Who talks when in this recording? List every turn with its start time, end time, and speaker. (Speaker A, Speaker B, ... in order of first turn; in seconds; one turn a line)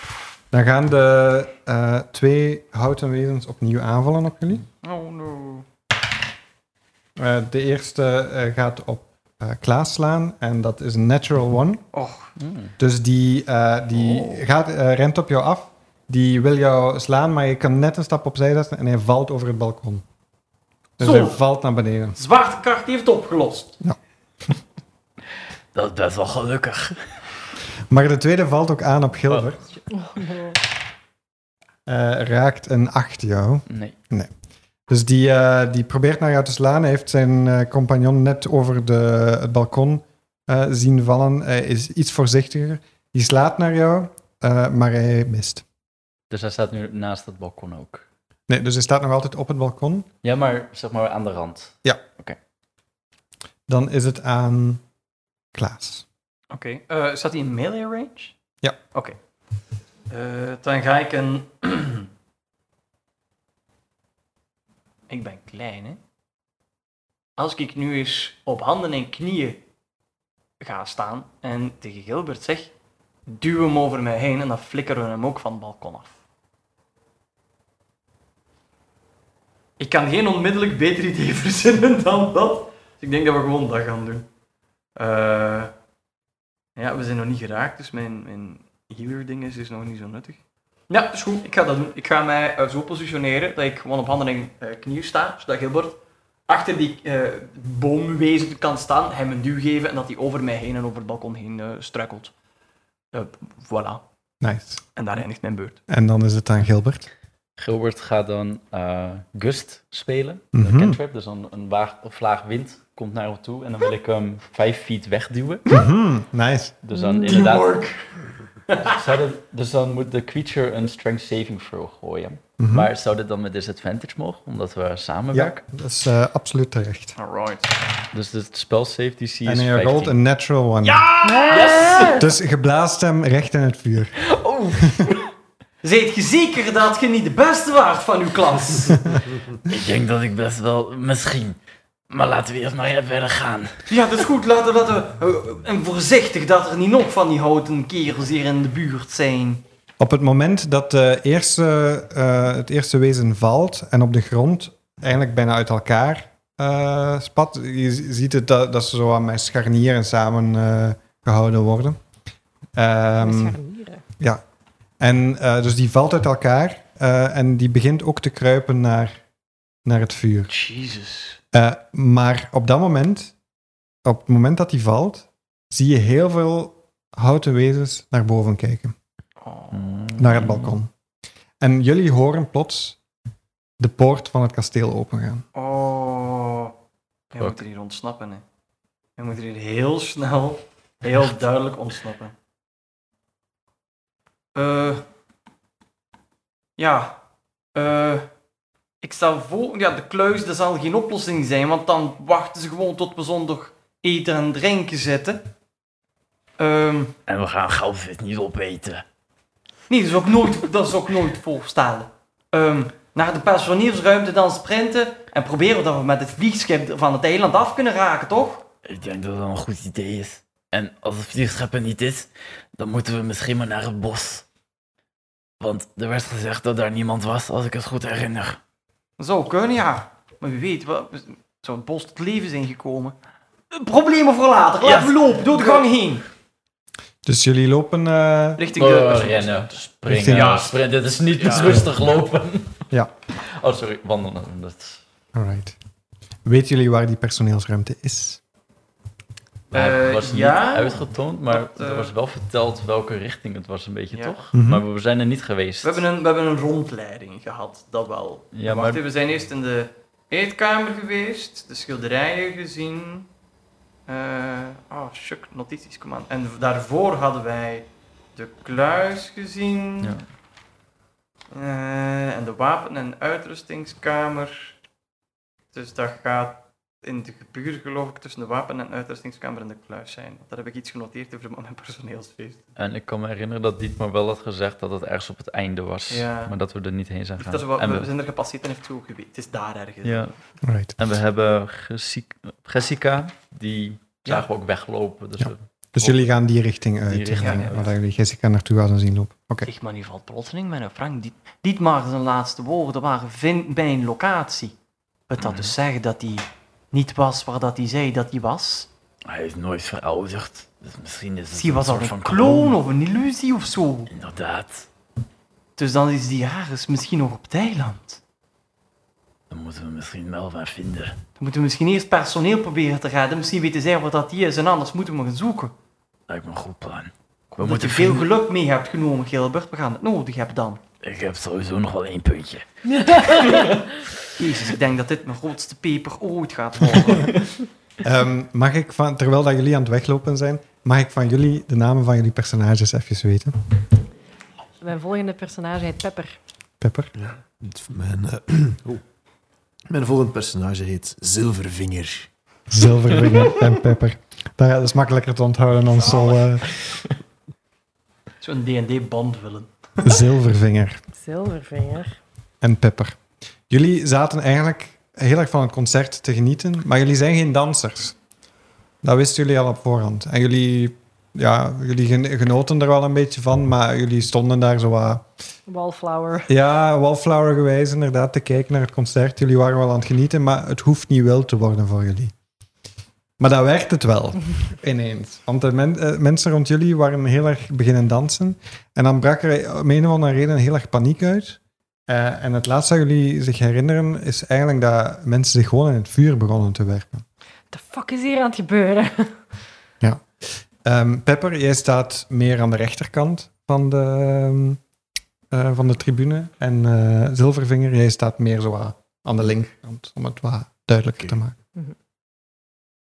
Speaker A: 0.5-4.6
Speaker B: 4.8-5.6
Speaker A: 7.2-11.8
Speaker B: 11.9-12.3
Speaker C: 12.4-12.7
Speaker A: 12.8-20.0
Speaker B: 13.9-14.4
Speaker A: 21.0-22.2
Speaker B: 21.0-21.4
Speaker B: 22.1-23.8
Speaker C: 25.7-27.0
Speaker A: 27.9-29.6
Speaker D: 29.9-30.6
Speaker A: 31.9-34.3
Speaker C: 33.7-33.9
Speaker A: 34.9-45.6
Speaker C: 46.3-48.0
Speaker A: 48.5-50.1
Speaker C: 50.2-52.4
Speaker A: 53.7-54.8
Speaker A: 55.5-56.0
Speaker B: 56.5-58.4
Speaker B: 60.1-62.1
Speaker B: 65.1-66.0
Speaker B: 67.4-69.6
Speaker B: 70.6-72.7
Speaker B: 73.2-76.2
Speaker B: 79.8-84.3
Speaker B: 85.0-85.7
Speaker B: 86.8-102.3
Speaker B: 103.1-104.0
Speaker A: 104.4-104.8
Speaker B: 105.0-105.8
Speaker A: 105.9-107.1
Speaker C: 107.6-115.6
Speaker A: 110.5-111.0
Speaker A: 115.7-116.8
Speaker C: 116.8-117.8
Speaker D: 116.9-117.5
Speaker B: 117.2-118.1
Speaker B: 118.7-119.0
Speaker C: 118.8-125.6
Speaker A: 122.6-122.9
Speaker A: 125.3-127.2
Speaker B: 127.2-127.7
Speaker C: 128.1-130.2
Speaker A: 129.4-131.1
Speaker B: 130.8-132.3
Speaker D: 131.2-132.2
Speaker C: 131.6-131.8
Speaker A: 132.1-134.1
Speaker C: 134.4-135.1
Speaker A: 134.8-135.1
Speaker B: 135.8-139.2
Speaker C: 139.6-141.6
Speaker C: 142.1-143.8
Speaker B: 143.9-149.6
Speaker A: 150.0-162.0
Speaker A: 162.7-163.6
Speaker D: 163.2-164.0
Speaker A: 165.0-169.2
Speaker A: 169.8-170.5
Speaker B: 170.5-171.4
Speaker A: 171.5-173.3
Speaker A: 174.0-178.9
Speaker B: 179.4-180.2
Speaker C: 179.7-180.8
Speaker A: 180.2-180.9
Speaker A: 181.6-183.0
Speaker A: 183.8-185.4
Speaker B: 185.5-186.7
Speaker B: 187.3-188.4
Speaker C: 187.3-187.6
Speaker B: 189.2-192.3
Speaker B: 194.5-195.0
Speaker B: 196.8-197.2
Speaker B: 197.7-198.3
Speaker B: 199.0-205.5
Speaker B: 206.6-207.1
Speaker C: 207.2-209.0
Speaker B: 209.9-218.7
Speaker C: 218.8-224.4
Speaker C: 225.6-228.6
Speaker B: 229.2-233.2
Speaker B: 233.7-236.2
Speaker C: 234.8-235.8
Speaker A: 237.2-238.6
Speaker B: 238.6-240.7
Speaker C: 238.7-242.8
Speaker A: 240.1-240.7
Speaker B: 241.4-241.8
Speaker C: 243.4-245.0
Speaker A: 245.3-245.8
Speaker A: 246.4-248.4
Speaker B: 249.7-252.1
Speaker C: 249.7-256.0
Speaker B: 254.1-254.4
Speaker A: 254.5-254.8
Speaker B: 255.8-263.3
Speaker C: 258.5-259.0
Speaker B: 264.1-270.2
Speaker B: 271.5-274.8
Speaker B: 275.7-282.6
Speaker C: 282.8-288.1
Speaker B: 286.1-286.5
Speaker B: 287.4-290.3
Speaker C: 290.0-290.4
Speaker A: 290.6-290.9
Speaker C: 291.0-296.3
Speaker A: 295.4-299.7
Speaker C: 297.1-297.9
Speaker B: 297.4-297.7
Speaker B: 299.6-304.7
Speaker B: 305.3-308.9
Speaker C: 305.4-305.7
Speaker C: 309.2-312.8
Speaker B: 311.5-314.1
Speaker C: 314.1-314.9
Speaker B: 315.8-318.2
Speaker C: 319.5-321.2
Speaker B: 321.4-325.7
Speaker C: 326.3-328.3
Speaker B: 327.5-330.8
Speaker C: 331.0-333.6
Speaker B: 334.4-337.4
Speaker A: 338.0-343.5
Speaker D: 344.8-346.4
Speaker A: 346.8-347.1
Speaker E: 347.2-349.0
Speaker E: 349.9-352.3
Speaker A: 352.7-356.7
Speaker B: 355.9-356.5
Speaker B: 358.4-359.7
Speaker A: 360.0-361.0
Speaker D: 361.1-362.2
Speaker A: 362.6-363.2
Speaker A: 363.7-368.1
Speaker A: 369.0-375.3
Speaker D: 375.7-376.5
Speaker A: 376.5-382.3
Speaker A: 383.4-397.2
Speaker D: 397.7-399.4
Speaker A: 400.0-404.8
Speaker A: 405.5-411.6